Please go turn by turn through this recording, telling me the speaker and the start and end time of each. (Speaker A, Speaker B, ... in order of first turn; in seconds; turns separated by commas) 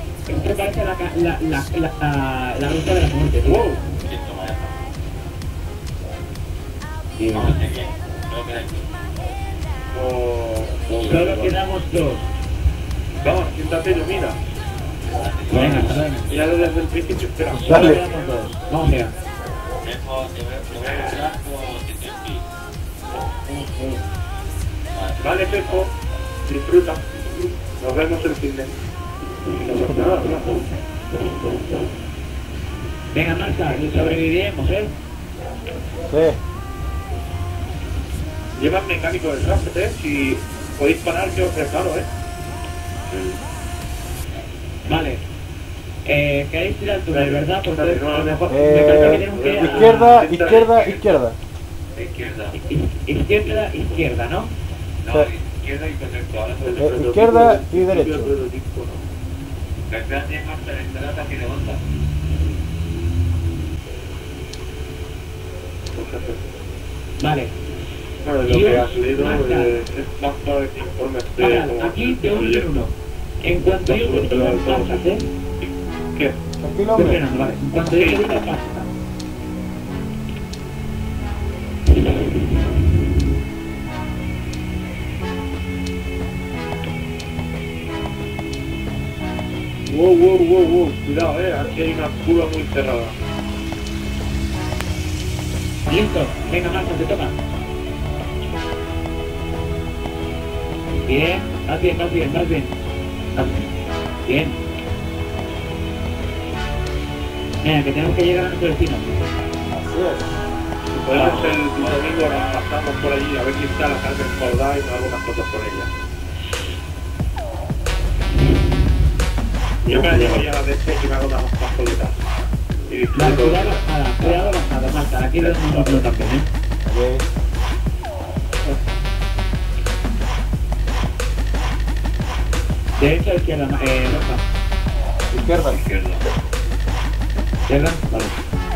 Speaker A: 0.3-3.7, Speaker B: 3.5-3.8, Speaker C: 4.0-4.8, Speaker A: 7.2-7.6, Speaker C: 7.3-8.9, Speaker B: 9.9-11.5, Speaker A: 11.0-12.3, Speaker B: 13.2-14.4, Speaker C: 15.2-16.3, Speaker A: 15.5-16.4, Speaker B: 16.3-18.0, Speaker D: 17.5-18.0, Speaker A: 17.5-19.1, Speaker C: 19.8-22.4, Speaker B: 20.8-21.1, Speaker A: 23.5-24.0, Speaker C: 24.9-25.8, Speaker B: 25.2-25.9, Speaker B: 26.5-27.0, Speaker B: 27.8-28.7, Speaker B: 29.5-30.5, Speaker A: 33.1-34.9, Speaker B: 33.7-34.2, Speaker D: 36.1-36.4, Speaker B: 38.6-42.1, Speaker A: 44.8-45.2, Speaker A: 46.0-50.3, Speaker B: 47.1-50.7, Speaker D: 48.5-51.4, Speaker C: 50.6-51.2, Speaker C: 51.9-52.6, Speaker A: 52.5-54.5, Speaker C: 55.0-56.9, Speaker B: 56.6-59.0, Speaker D: 56.8-58.3, Speaker C: 59.9-61.8, Speaker B: 66.0-66.4, Speaker A: 67.2-67.5, Speaker B: 68.2-72.7, Speaker A: 68.4-69.8, Speaker A: 71.4-75.3, Speaker B: 73.9-75.0, Speaker B: 76.2-76.4, Speaker D: 76.6-77.2, Speaker A: 76.9-78.9, Speaker B: 77.9-78.3, Speaker A: 82.0-82.3, Speaker B: 89.9-93.1, Speaker A: 95.9-97.4, Speaker A: 101.0-102.7, Speaker A: 103.3-103.7, Speaker A: 104.3-104.6, Speaker A: 107.6-109.2, Speaker D: 109.7-110.3, Speaker B: 110.9-115.9, Speaker C: 111.1-112.7, Speaker A: 111.1-111.4, Speaker B: 119.8-122.2, Speaker D: 119.8-120.5, Speaker B: 122.9-124.4, Speaker A: 123.2-126.5, Speaker B: 125.4-126.1, Speaker D: 126.8-127.2, Speaker A: 133.0-134.4, Speaker D: 135.3-135.8, Speaker C: 135.7-136.3, Speaker A: 137.7-138.3